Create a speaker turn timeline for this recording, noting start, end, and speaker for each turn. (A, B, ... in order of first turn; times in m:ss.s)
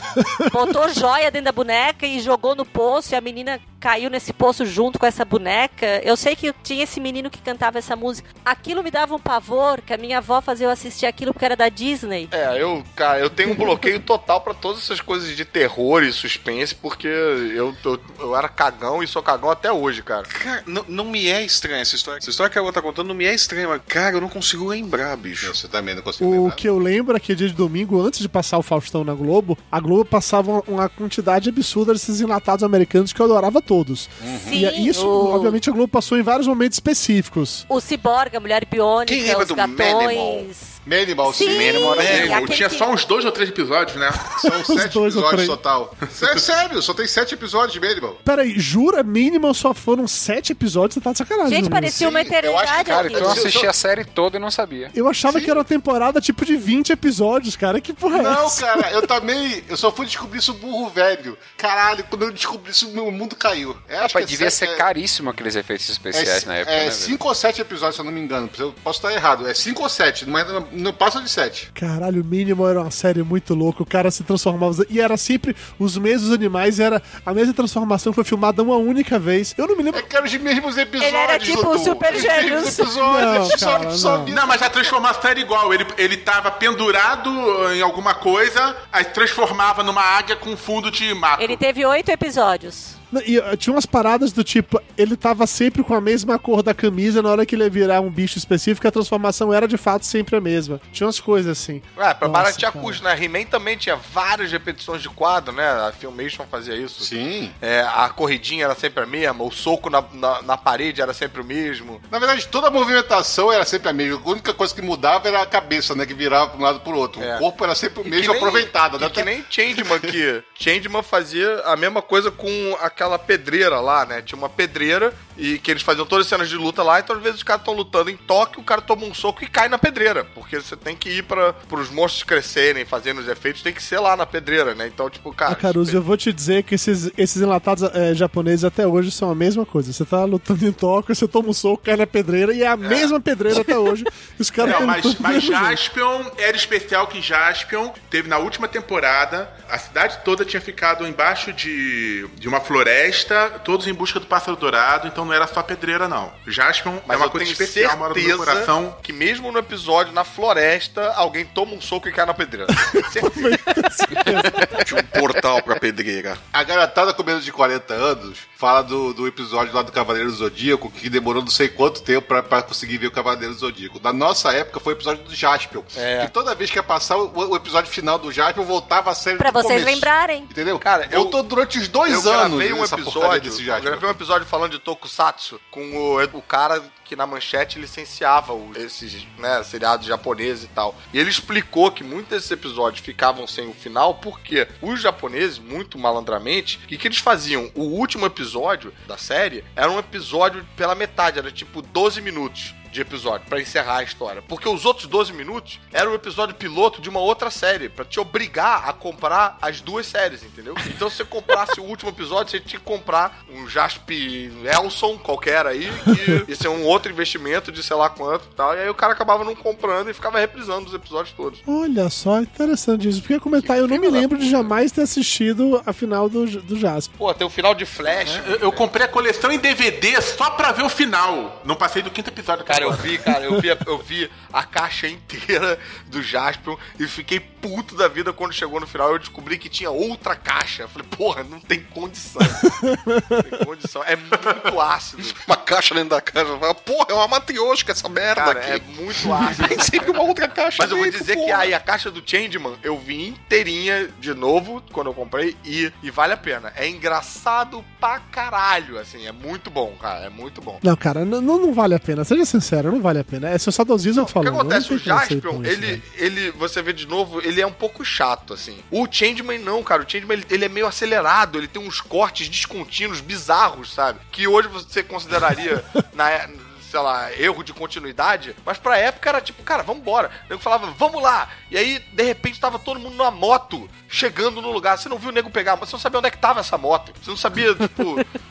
0:00.2-0:00.5 A
0:00.5-0:12.3 B
0:12.3-0:20.3 C
0:20.3-0:25.5 D
0:25.4-0:26.6 E
0:26.2-0:37.6 A
0:34.2-0:34.6 E
0:34.3-0:35.6 B
0:37.7-0:42.9 B
0:39.0-0:40.5 D
0:40.8-0:42.4 E
0:41.5-0:41.9 F
0:41.7-0:44.2 G
0:44.3-0:48.2 E
0:44.4-0:45.6 A
0:46.1-0:46.4 G
0:48.2-0:52.0 A
0:51.4-0:53.6 B
0:51.9-0:53.7 E
0:52.8-0:54.9 F
0:54.9-0:58.8 A
0:55.3-0:55.6 E
0:58.1-1:04.9 E
1:04.0-1:07.2 F
1:06.1-1:11.7 E
1:11.8-1:20.1 A
1:19.9-1:24.8 E
1:21.0-1:23.0 B
1:23.0-1:24.3 A
1:24.3-1:31.6 G
1:31.4-1:33.0 B
1:33.1-1:43.0 A
1:42.0-1:52.0 C
1:47.0-1:47.5 E
1:52.1-2:00.1 E
1:57.2-1:57.4 C
1:58.0-2:16.0 C
2:15.5-2:25.8 A
2:22.8-2:23.1 C
2:24.6-2:39.0 G
2:37.0-2:43.8 C
2:42.9-2:44.8 A
2:44.7-2:46.4 D
2:46.5-3:04.0 E
2:56.0-2:56.3 C
2:59.4-3:00.5 B
3:00.8-3:01.4 C
3:02.0-3:41.6 C
3:41.7-3:47.1 A
3:43.6-3:44.8 C
3:47.2-3:48.8 C
3:48.2-3:53.2 G
3:52.6-4:02.8 C
4:02.8-4:03.4 A
4:03.3-4:05.4 C
4:05.4-4:11.7 D
4:08.3-4:10.1 C
4:10.8-4:20.8 C
4:20.8-4:26.0 A
4:24.2-4:48.2 C